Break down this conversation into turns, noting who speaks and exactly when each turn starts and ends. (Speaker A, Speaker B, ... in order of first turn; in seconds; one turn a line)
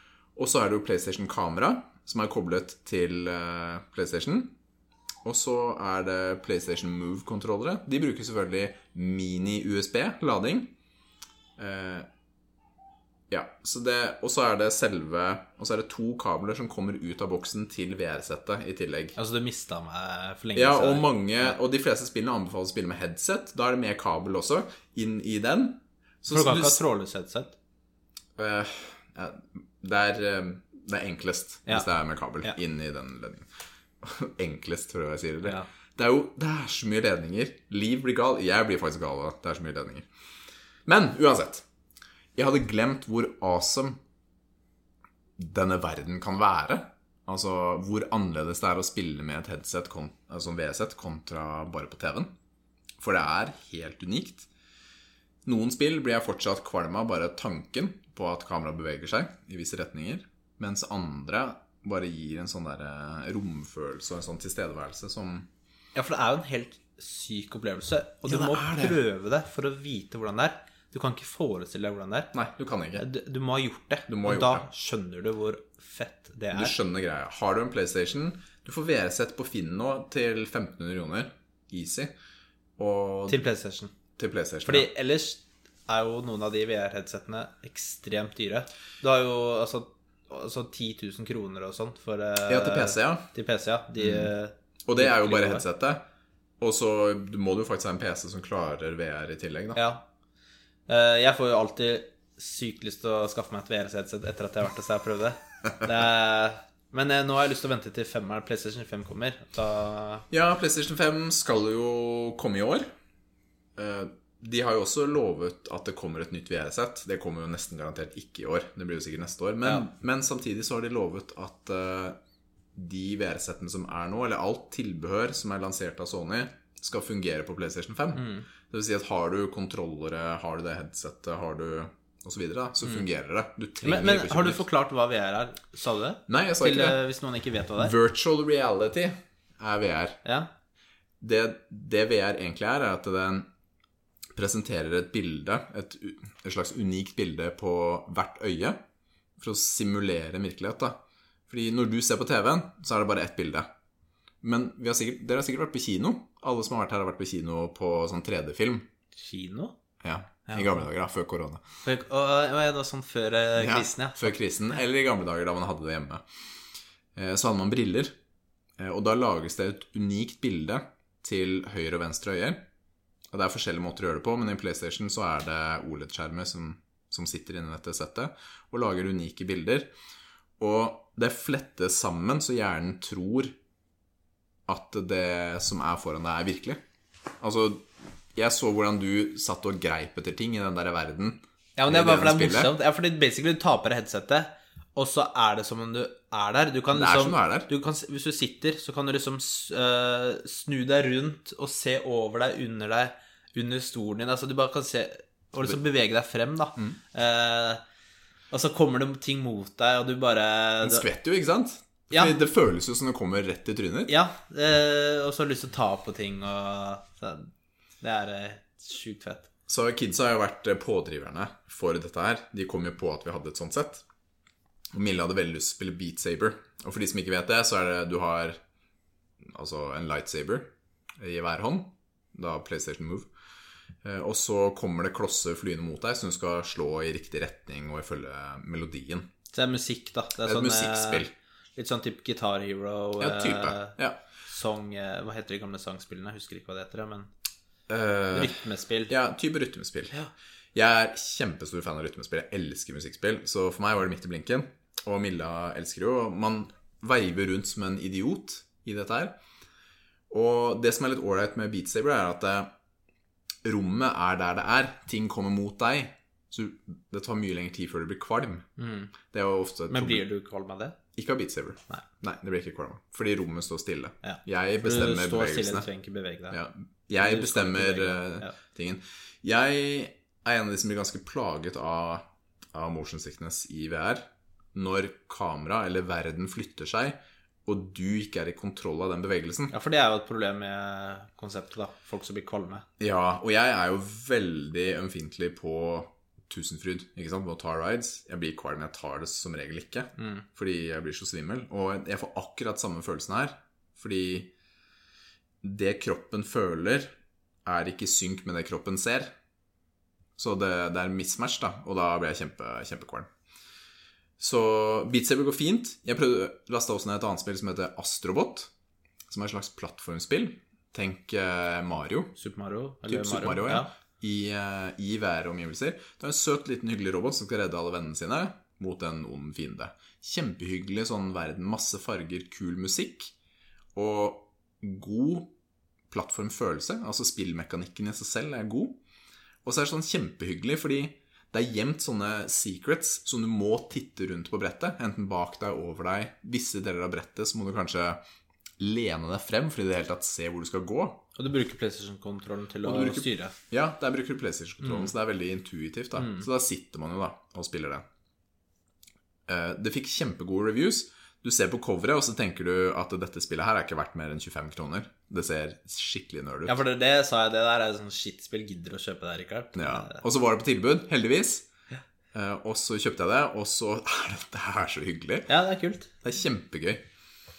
Speaker A: 0.3-4.5
Speaker A: 5.2-10.7
Speaker A: 11.6-12.1
Speaker A: 13.3-19.2
Speaker B: 19.2-21.5
Speaker A: 20.5-26.8
Speaker B: 26.3-27.5
Speaker A: 28.4-33.5
Speaker A: 34.0-40.1
Speaker A: 40.9-41.6
Speaker A: 42.4-44.0
Speaker A: 45.4-52.3
Speaker A: 53.0-54.5
Speaker A: 55.4-65.5
Speaker B: 65.9-72.3
Speaker A: 68.3-69.0
Speaker A: 72.3-73.0
Speaker B: 73.0-76.7
Speaker A: 74.1-74.7
Speaker A: 76.5-82.1
Speaker A: 82.8-83.5
Speaker B: 83.3-83.9
Speaker A: 84.2-84.9
Speaker B: 84.7-95.6
Speaker A: 92.5-93.2
Speaker A: 94.0-94.3
Speaker A: 94.8-96.0
Speaker A: 96.6-99.8
Speaker B: 99.7-100.0
Speaker B: 100.9-110.3
Speaker A: 110.3-112.9
Speaker A: 113.8-122.2
Speaker A: 122.7-134.6
Speaker B: 128.1-128.4
Speaker B: 133.8-137.9
Speaker A: 136.3-137.0
Speaker A: 137.8-140.2
Speaker A: 141.2-143.5
Speaker A: 144.3-148.8
Speaker A: 149.4-151.0
Speaker A: 151.5-153.7
Speaker A: 154.4-158.9
Speaker B: 159.2-159.7
Speaker A: 160.0-161.6
Speaker B: 160.5-160.8
Speaker B: 161.8-164.4
Speaker A: 163.6-166.2
Speaker A: 167.2-168.2
Speaker A: 168.8-172.6
Speaker A: 173.3-179.9
Speaker A: 180.6-183.6
Speaker A: 184.7-186.8
Speaker A: 187.4-192.7
Speaker B: 191.8-207.8
Speaker A: 196.9-197.7
Speaker B: 208.5-211.1
Speaker A: 210.8-214.1
Speaker B: 214.1-217.5
Speaker B: 218.0-219.5
Speaker A: 219.7-224.0
Speaker A: 224.9-228.6
Speaker A: 229.4-233.3
Speaker A: 234.0-239.3
Speaker B: 239.5-247.3
Speaker A: 240.4-241.3
Speaker A: 243.2-244.2
Speaker A: 247.9-248.5
Speaker B: 248.3-249.1
Speaker A: 249.1-250.2
Speaker A: 250.7-259.4
Speaker A: 260.3-262.7
Speaker A: 263.6-268.6
Speaker B: 268.8-269.1
Speaker A: 269.2-270.2
Speaker B: 269.9-271.0
Speaker A: 271.1-275.9
Speaker B: 274.2-276.6
Speaker A: 276.5-289.7
Speaker B: 277.2-278.5
Speaker B: 289.7-292.9
Speaker A: 293.0-304.5
Speaker B: 300.2-300.4
Speaker A: 305.6-307.1
Speaker A: 307.6-309.3
Speaker A: 310.4-313.3
Speaker A: 314.4-318.7
Speaker A: 319.3-322.3
Speaker B: 322.4-323.9
Speaker A: 323.1-333.3
Speaker A: 333.9-335.5
Speaker A: 336.1-339.0
Speaker A: 339.6-348.2
Speaker A: 348.8-351.2
Speaker B: 351.4-353.5
Speaker A: 352.8-358.0
Speaker B: 354.8-355.1
Speaker B: 356.2-356.4
Speaker A: 359.5-366.8
Speaker B: 366.6-370.2
Speaker A: 369.7-371.7
Speaker A: 372.3-375.5
Speaker B: 375.5-376.1
Speaker A: 376.2-377.0